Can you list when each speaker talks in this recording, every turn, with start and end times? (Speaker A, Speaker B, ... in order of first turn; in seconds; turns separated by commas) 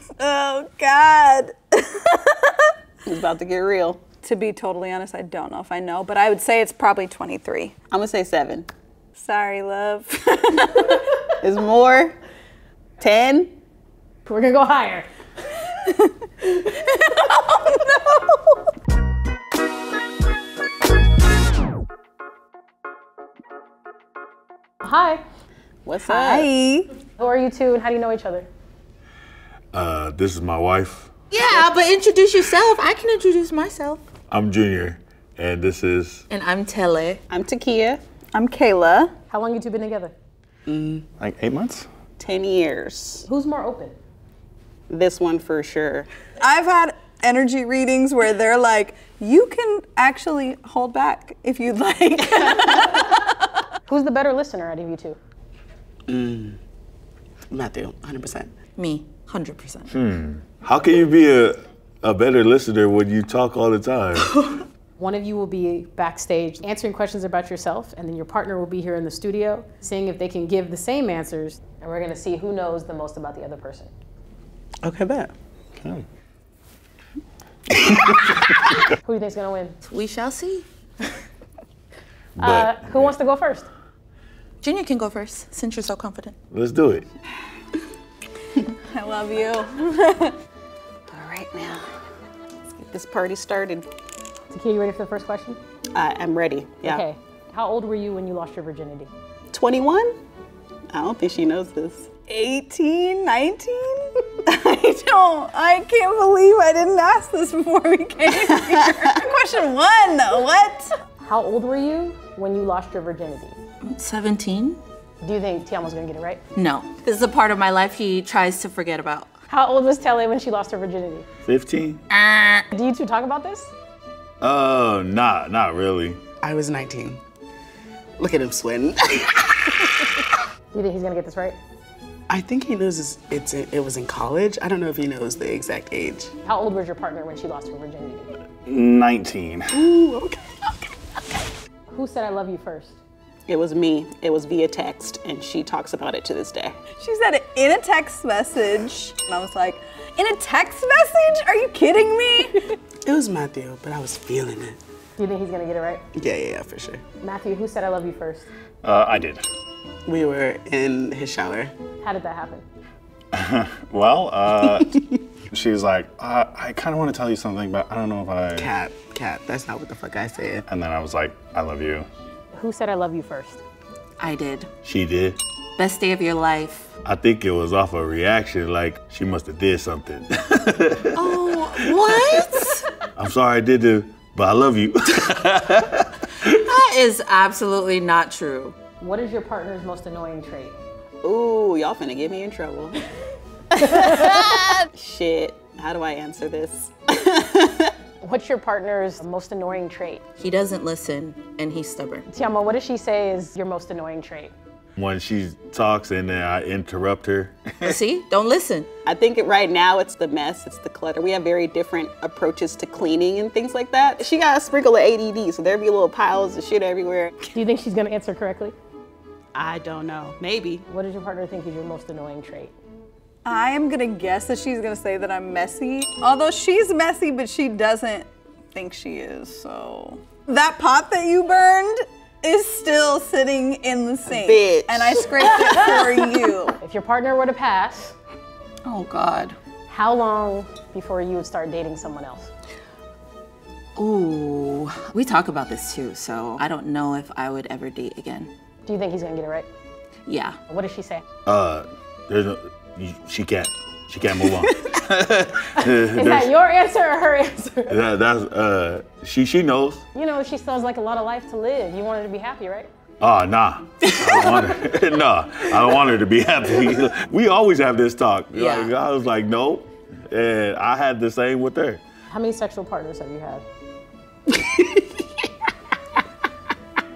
Speaker A: 0.2-2.7, Speaker B: 3.1-4.1, Speaker A: 4.1-7.8, Speaker B: 7.9-8.7, Speaker A: 9.2-11.0, Speaker B: 11.4-12.2, Speaker B: 13.0-13.5, Speaker C: 14.2-15.1, Speaker A: 15.8-18.6, Speaker C: 24.8-25.2, Speaker B: 25.8-26.4, Speaker A: 26.0-26.9, Speaker C: 27.2-28.5, Speaker D: 29.7-31.1, Speaker E: 31.3-34.0, Speaker D: 34.3-36.2, Speaker E: 36.3-37.2, Speaker B: 37.3-38.0, Speaker A: 38.3-39.1, Speaker C: 39.3-40.1, Speaker F: 40.7-41.0, Speaker G: 41.2-41.9, Speaker B: 42.2-43.2, Speaker C: 43.2-43.9, Speaker B: 44.9-46.1, Speaker A: 46.4-53.4, Speaker C: 53.9-55.2, Speaker F: 56.1-56.6, Speaker F: 57.5-58.5, Speaker E: 58.8-59.9, Speaker D: 59.9-64.3, Speaker C: 65.0-73.9, Speaker F: 74.8-75.3, Speaker C: 79.0-79.8, Speaker E: 79.8-80.7, Speaker D: 82.4-83.1, Speaker C: 82.4-83.7, Speaker E: 84.6-86.3, Speaker D: 86.5-87.0, Speaker A: 88.7-90.4, Speaker B: 91.1-91.8, Speaker B: 92.7-93.8, Speaker C: 94.5-95.6, Speaker B: 95.9-97.0, Speaker C: 96.8-99.1, Speaker B: 99.5-100.2, Speaker B: 100.9-102.1, Speaker A: 102.2-110.9, Speaker C: 111.2-113.5, Speaker E: 113.8-114.8, Speaker C: 115.2-116.4, Speaker E: 116.5-119.3, Speaker C: 119.5-121.2, Speaker D: 121.4-122.0, Speaker E: 122.1-122.6, Speaker C: 122.7-123.7, Speaker D: 124.4-126.2, Speaker F: 126.4-127.2, Speaker F: 128.2-129.8, Speaker C: 130.7-131.6, Speaker F: 132.3-136.3, Speaker C: 136.4-138.3, Speaker G: 138.7-139.8, Speaker F: 139.7-141.5, Speaker C: 141.9-143.0, Speaker B: 143.5-146.8, Speaker A: 146.9-152.6, Speaker F: 153.0-154.8, Speaker C: 155.2-156.0, Speaker F: 156.1-157.0, Speaker C: 157.2-158.5, Speaker G: 158.8-159.4, Speaker F: 160.1-161.7, Speaker C: 162.0-162.6, Speaker G: 163.3-168.7, Speaker F: 168.6-170.6, Speaker G: 170.7-172.1, Speaker C: 172.5-173.6, Speaker E: 174.2-174.7, Speaker D: 174.8-175.4, Speaker E: 175.8-176.9, Speaker D: 177.0-182.2, Speaker E: 181.1-182.8, Speaker D: 183.2-186.4, Speaker E: 186.4-188.8, Speaker C: 189.0-190.8, Speaker B: 191.2-192.9, Speaker C: 193.8-194.5, Speaker B: 193.8-197.9, Speaker C: 198.2-200.2, Speaker E: 200.4-202.3, Speaker C: 202.3-204.5, Speaker D: 204.9-208.0, Speaker E: 207.8-208.9, Speaker B: 209.1-217.3, Speaker C: 217.5-218.7, Speaker F: 219.5-220.8, Speaker C: 220.9-222.7, Speaker A: 223.4-236.8, Speaker F: 234.2-235.3, Speaker C: 236.8-238.1, Speaker E: 238.8-239.6, Speaker C: 239.9-242.5, Speaker E: 243.9-248.5, Speaker C: 248.8-249.7, Speaker E: 250.2-250.6, Speaker C: 250.7-251.2, Speaker D: 251.4-256.5, Speaker C: 256.1-257.9, Speaker D: 257.9-260.0, Speaker C: 260.1-262.9, Speaker D: 263.2-272.0, Speaker E: 268.5-268.9, Speaker C: 272.3-273.6, Speaker F: 274.5-275.4